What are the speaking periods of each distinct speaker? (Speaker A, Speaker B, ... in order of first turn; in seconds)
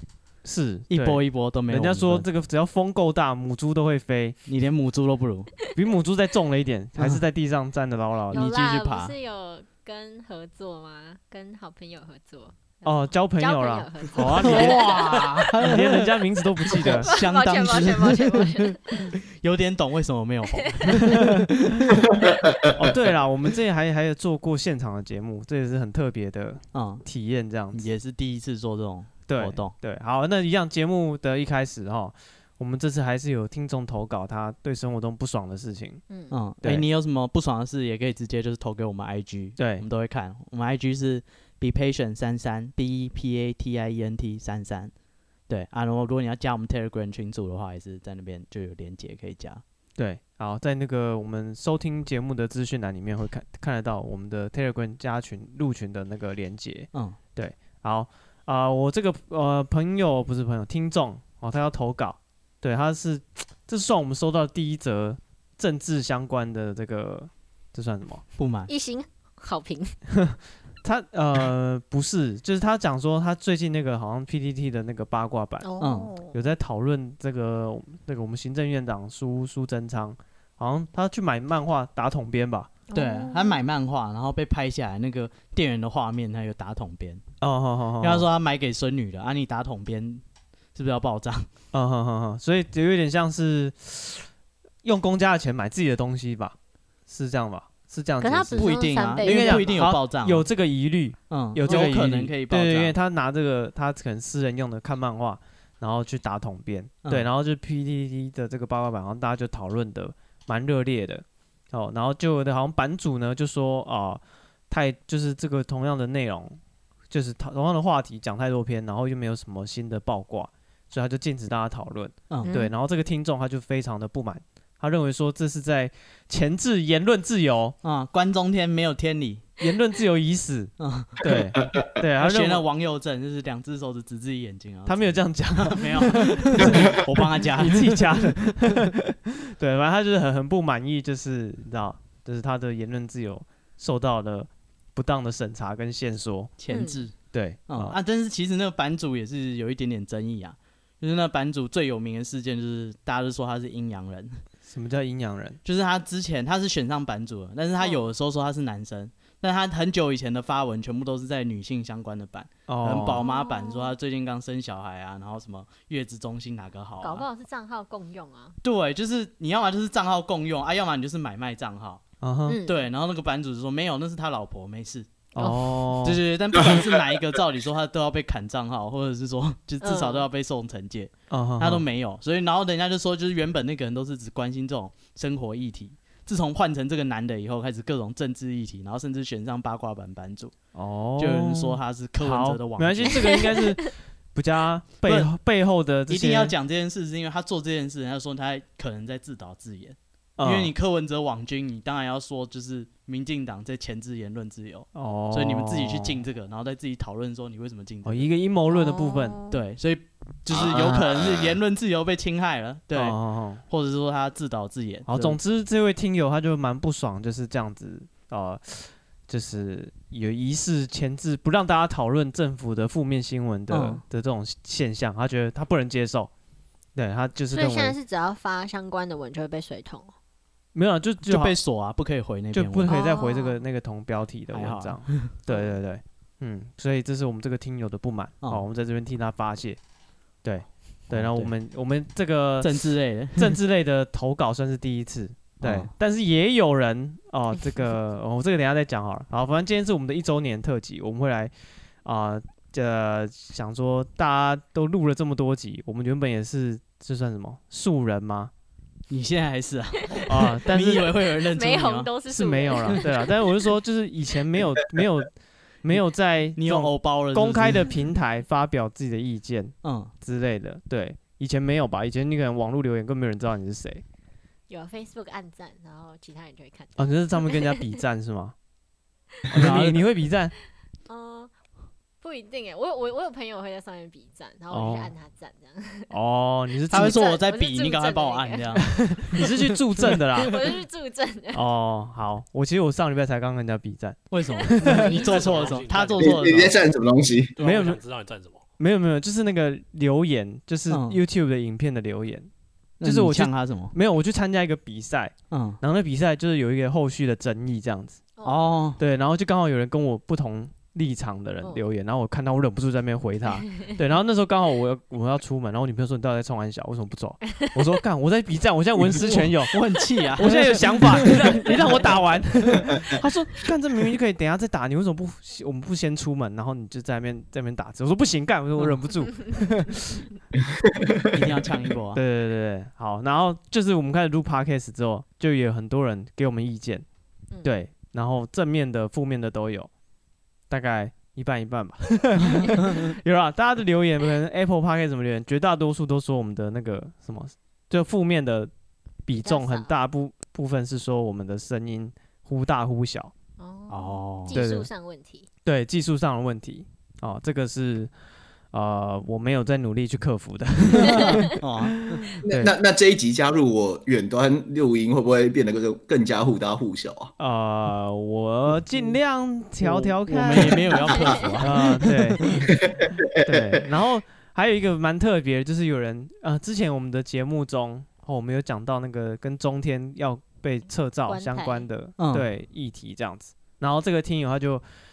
Speaker A: 0.4-4.4, 5.7-8.5, 12.8-17.1, 21.0-22.0, 22.7-27.9, 29.3-36.0, 36.6-36.9, 39.6-39.9, 50.0-68.2, 70.1-75.7, 76.3-82.8, 87.4-88.3, 91.7-94.3, 94.8-96.5, 97.1-116.6, 117.1-127.8, 129.6-132.6, 134.8-146.5, 147.2-147.9, 154.7-155.6, 162.7-163.2, 172.2-172.6, 175.3-176.2, 181.3-181.8, 190.7-196.5, 200.4-200.7, 204.9-206.2, 208.0-209.4, 212.9-213.6, 215.1-226.3, 226.9-227.9, 230.7-231.6, 232.5-239.8, 240.4-251.5, 252.0-258.5, 260.2-261.1, 262.3-265.3, 265.8-274.0, 277.0-278.5, 279.5-280.5, 284.7-285.1, 286.1-287.2, 289.2-290.5, 291.5-295.1, 297.6-298.0, 298.8-302.5, 303.0-308.2, 309.0-319.8, 320.4-330.2, 332.1-337.0, 337.6-339.9, 340.7-348.7, 349.2-353.3, 354.5-354.9, 355.6-358.1, 358.7-362.7, 367.4-371.1, 371.6-372.5, 373.4-384.8
Speaker B: 0.9-2.2, 4.5-5.5, 7.0-7.2, 8.3-9.1, 14.2-22.0, 26.7-27.0, 27.7-29.7, 36.3-44.9, 45.5-49.6, 68.4-68.7, 75.8-76.1, 82.9-87.2, 88.0-90.2, 90.7-91.5, 98.5-100.5, 101.3-102.9, 127.8-129.4, 130.8-131.2, 132.2-138.9, 146.6-147.1, 147.7-154.4, 155.6-167.3, 168.6-172.0, 172.6-175.1, 176.0-190.5, 191.2-193.5, 195.0-195.3, 196.1-208.3, 209.5-215.4, 223.7-224.0, 231.2-233.0, 234.5-235.3, 241.1-241.5, 242.6-243.6, 245.6-245.9, 259.1-262.1, 266.6-267.9, 269.8-270.1, 279.5-280.0, 286.9-290.6, 294.3-296.8, 300.9-301.2, 303.0-303.9, 305.5-305.8, 308.4-309.0, 319.1-322.9, 331.3-332.2, 342.5-343.1, 353.9-354.6, 360.9-362.4, 369.8-372.8, 382.2-382.5
Speaker C: 8.3-15.5, 16.6-19.1, 20.4-20.9, 36.1-36.4, 68.7-70.0, 75.6-76.3, 82.9-83.6, 98.2-99.8, 122.4-122.7, 146.7-147.1, 163.2-163.9, 167.0-168.6, 172.4-172.8, 175.3-175.7, 179.8-180.3, 208.7-209.6, 227.5-230.1, 232.9-233.6, 260.1-260.4, 261.3-263.5, 274.7-277.9, 281.1-281.5, 282.2-286.1, 286.9-289.1, 290.4-291.6, 308.4-308.9, 313.6-313.9, 317.5-317.8, 321.3-321.6, 349.3-349.9, 353.6-355.5, 381.2-381.9
Speaker D: 22.0-22.9, 136.6-137.0, 210.5-211.6, 296.2-297.5, 331.0-331.3, 362.4-367.3, 372.6-373.8
Speaker E: 295.0-296.7, 297.6-298.6